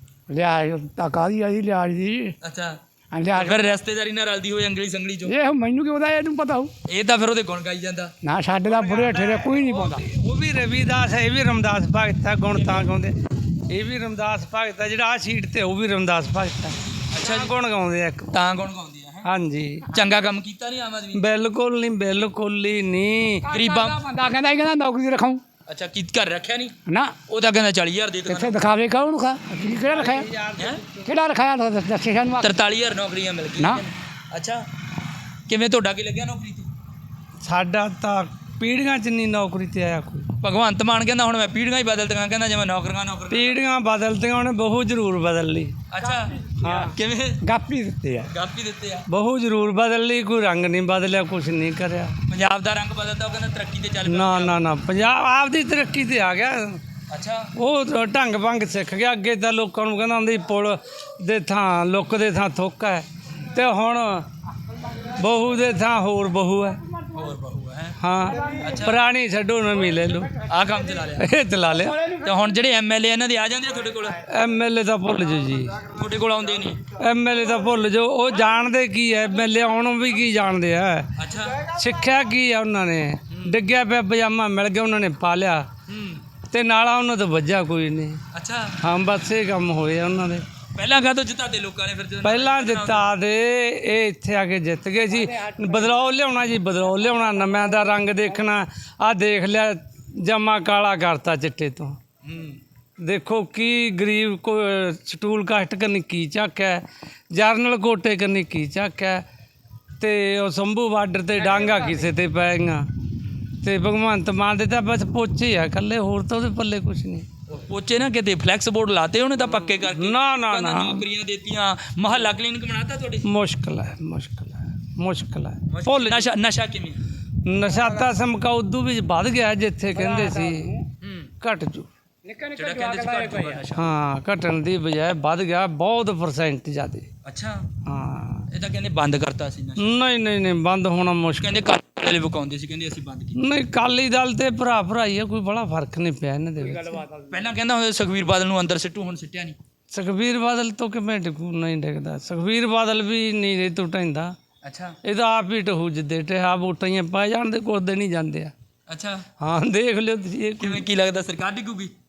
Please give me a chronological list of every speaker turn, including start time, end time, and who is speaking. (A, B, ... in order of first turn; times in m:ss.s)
0:00.3-0:02.3 A
0:02.4-0:02.8 B
0:03.1-0:03.7 A
0:03.3-0:05.3 B
0:05.2-0:06.7 A
0:06.9-0:08.1 B
0:08.2-0:10.0 A
0:08.8-0:13.1 C
0:12.5-0:12.9 B
0:13.7-0:18.3 C
0:17.1-0:17.5 B
0:18.3-0:19.3 B
0:19.2-0:19.9 C
0:19.8-0:21.3 B
0:21.1-0:23.4 C
0:23.4-0:25.4 A
0:23.5-0:24.0 B
0:25.7-0:26.7 B
0:26.9-0:27.2 A
0:27.3-0:28.6 B
0:28.3-0:30.3 A
0:29.6-0:30.9 C
0:31.0-0:32.5 A
0:32.4-0:34.6 B
0:33.6-0:33.8 A
0:35.5-0:36.7 B
0:37.4-0:40.3 C
0:40.4-0:43.6 B
0:43.3-0:45.7 C
0:45.9-0:47.4 B
0:46.6-0:46.9 C
0:47.4-0:48.3 A
0:48.3-0:49.0 B
0:49.1-0:52.1 C
0:52.3-0:54.6 B
0:54.1-0:56.8 C
0:57.1-0:57.5 B
0:57.6-1:04.2 C
1:05.2-1:06.8 C
1:07.1-1:08.0 B
1:08.0-1:10.3 C
1:08.6-1:09.0 B
1:10.4-1:11.3 B
1:11.2-1:12.0 C
1:12.2-1:14.2 B
1:14.3-1:15.9 C
1:15.9-1:16.8 B
1:17.0-1:21.1 C
1:21.2-1:21.6 B
1:21.6-1:25.7 C
1:23.3-1:23.6 B
1:25.9-1:26.2 B
1:26.5-1:28.2 C
1:28.3-1:28.8 B
1:28.8-1:30.4 C
1:30.7-1:33.1 B
1:32.2-1:42.0 C
1:35.1-1:36.1 A
1:42.2-1:42.6 B
1:43.0-1:49.2 C
1:50.0-1:52.8 C
1:51.5-1:52.1 A
1:53.6-1:57.3 C
1:57.5-2:03.2 B
1:59.5-2:01.0 C
2:03.2-2:06.3 C
2:05.7-2:07.0 B
2:07.4-2:10.7 C
2:07.7-2:08.2 A
2:09.9-2:10.7 A
2:11.0-2:11.3 B
2:11.4-2:11.9 C
2:12.2-2:13.6 A
2:12.6-2:13.9 B
2:13.7-2:17.1 C
2:17.2-2:17.6 B
2:17.8-2:18.5 C
2:18.5-2:20.0 B
2:19.8-2:21.5 C
2:21.4-2:23.4 B
2:23.3-2:27.0 C
2:26.6-2:27.2 A
2:27.3-2:29.6 B
2:29.9-2:34.4 C
2:34.6-2:35.0 B
2:35.0-2:38.5 C
2:38.9-2:39.2 B
2:39.4-2:40.8 C
2:40.6-2:41.9 B